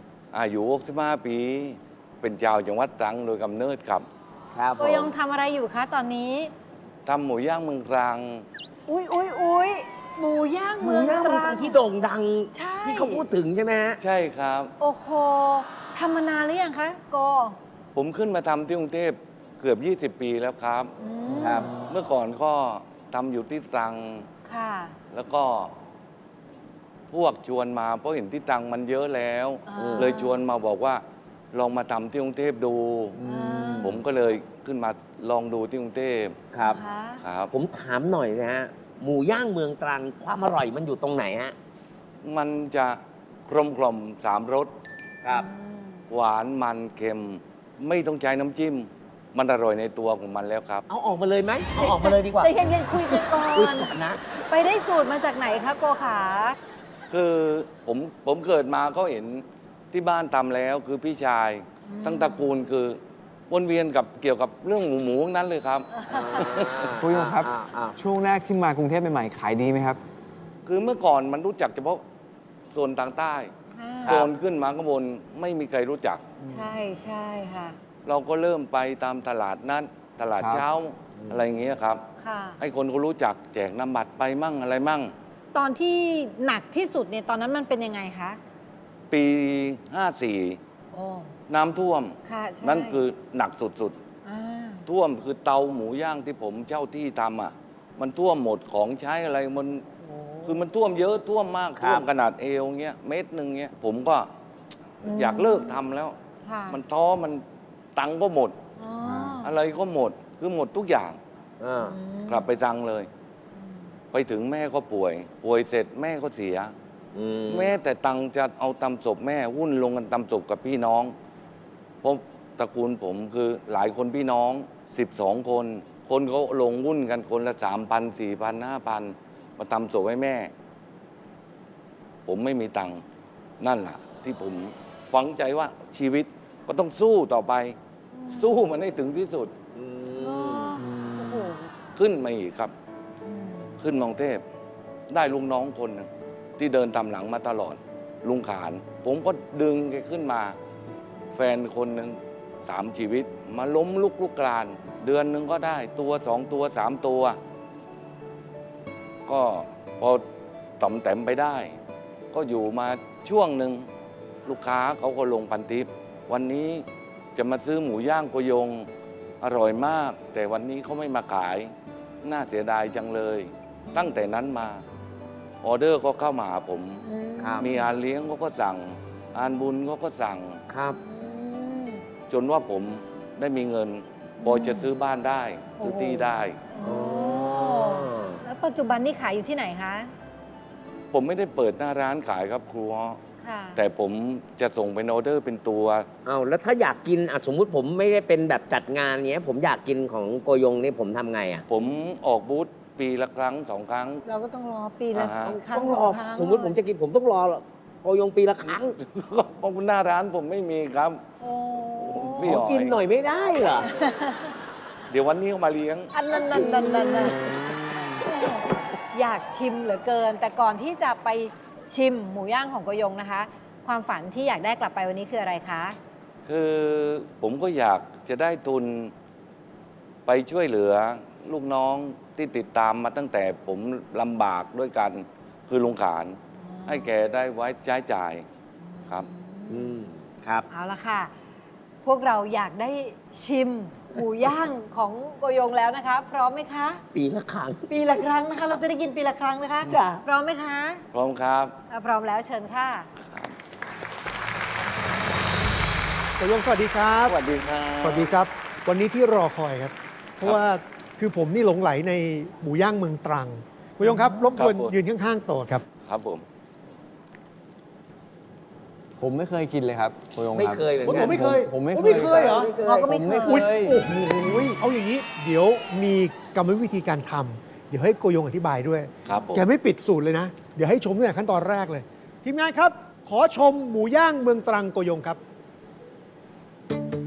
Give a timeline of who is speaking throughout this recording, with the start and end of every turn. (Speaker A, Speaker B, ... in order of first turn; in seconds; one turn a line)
Speaker A: 0.3-4.1
Speaker B: 4.5-5.1
Speaker C: 4.8-6.5
Speaker A: 7.1-8.5
Speaker C: 8.9-11.8
Speaker B: 10.8-14.0
Speaker C: 12.5-13.2
Speaker A: 14.0-14.7
Speaker C: 14.8-17.6
Speaker A: 17.9-20.9
Speaker C: 21.0-21.7
Speaker B: 21.4-21.9
Speaker A: 21.8-24.3
Speaker C: 24.4-24.9
Speaker A: 25.1-25.7
Speaker A: 27.1-31.0
Speaker C: 29.7-30.4
Speaker B: 29.8-30.1
Speaker A: 31.5-33.2
Speaker B: 33.2-33.9
Speaker C: 33.2-34.0
Speaker A: 33.8-36.4
Speaker B: 36.5-36.8
Speaker C: 36.7-37.2
Speaker A: 37.2-37.5
Speaker B: 37.5-41.5
Speaker A: 42.2-44.7
Speaker C: 45.3-46.0
Speaker A: 46.1-50.9
Speaker B: 50.9-54.2
Speaker C: 51.8-56.6
Speaker A: 57.1-63.0
Speaker C: 61.9-62.5
Speaker A: 63.5-66.9
Speaker C: 65.9-66.5
Speaker B: 66.1-68.0
Speaker D: 66.8-70.0
Speaker A: 70.7-72.0
Speaker A: 72.7-73.5
Speaker C: 73.7-74.2
Speaker B: 74.0-74.3
Speaker A: 74.0-76.2
Speaker C: 76.5-77.8
Speaker D: 76.5-76.8
Speaker A: 78.0-82.0
Speaker D: 80.4-80.7
Speaker C: 82.2-82.6
Speaker A: 82.6-85.1
Speaker C: 85.5-88.4
Speaker A: 89.1-90.6
Speaker C: 90.9-91.3
Speaker A: 91.5-94.0
Speaker C: 92.2-93.0
Speaker C: 94.2-94.8
Speaker A: 94.9-99.8
Speaker C: 100.0-100.6
Speaker A: 100.5-104.3
Speaker B: 101.8-102.1
Speaker A: 105.0-106.2
Speaker C: 105.0-105.8
Speaker C: 106.5-106.8
Speaker A: 106.7-107.4
Speaker A: 108.0-108.5
Speaker C: 108.8-109.5
Speaker D: 109.0-109.4
Speaker A: 109.4-111.2
Speaker B: 111.6-112.0
Speaker C: 111.8-112.5
Speaker A: 112.3-113.1
Speaker C: 113.6-113.9
Speaker A: 114.1-116.7
Speaker B: 117.2-117.7
Speaker A: 117.5-121.1
Speaker A: 122.0-130.5
Speaker A: 132.3-133.0
Speaker A: 133.6-137.8
Speaker C: 138.1-138.5
Speaker A: 138.3-139.5
Speaker B: 139.7-140.8
Speaker C: 140.2-141.7
Speaker D: 140.8-141.5
Speaker A: 142.0-142.7
Speaker C: 143.2-143.8
Speaker A: 143.8-144.4
Speaker A: 145.1-150.6
Speaker A: 151.3-157.4
Speaker A: 159.3-160.2
Speaker A: 160.8-161.8
Speaker A: 162.3-163.9
Speaker A: 164.5-168.9
Speaker A: 169.4-171.7
Speaker A: 172.2-174.8
Speaker A: 175.6-177.0
Speaker C: 177.0-177.9
Speaker B: 177.4-177.7
Speaker A: 177.6-180.6
Speaker B: 180.7-181.0
Speaker C: 181.0-182.0
Speaker A: 182.3-186.6
Speaker C: 184.4-184.9
Speaker C: 185.8-190.1
Speaker B: 186.8-188.4
Speaker A: 191.1-193.2
Speaker C: 193.4-193.8
Speaker A: 193.8-196.1
Speaker B: 196.3-201.7
Speaker A: 201.7-204.2
Speaker C: 204.2-206.8
Speaker A: 205.1-205.6
Speaker B: 205.5-209.0
Speaker A: 209.0-211.2
Speaker C: 211.4-212.6
Speaker A: 212.0-213.0
Speaker B: 212.4-213.9
Speaker C: 213.8-214.6
Speaker A: 215.1-216.1
Speaker C: 216.1-217.5
Speaker B: 216.3-218.2
Speaker C: 218.2-226.0
Speaker A: 226.5-229.1
Speaker A: 230.3-238.4
Speaker C: 236.6-237.1
Speaker C: 238.8-239.9
Speaker B: 239.7-240.7
Speaker C: 240.7-241.3
Speaker C: 242.0-247.0
Speaker B: 247.1-247.8
Speaker C: 247.9-251.0
Speaker B: 249.8-250.2
Speaker A: 251.1-251.8
Speaker C: 251.9-253.1
Speaker A: 253.2-253.6
Speaker E: 256.4-257.4
Speaker A: 257.3-258.4
Speaker E: 258.0-265.8
Speaker A: 264.6-264.9
Speaker A: 266.0-266.4
Speaker D: 269.2-274.0
Speaker B: 270.6-271.5
Speaker E: 271.1-272.7
Speaker B: 272.0-273.3
Speaker C: 272.8-273.6
Speaker E: 273.4-285.4
Speaker A: 279.3-279.7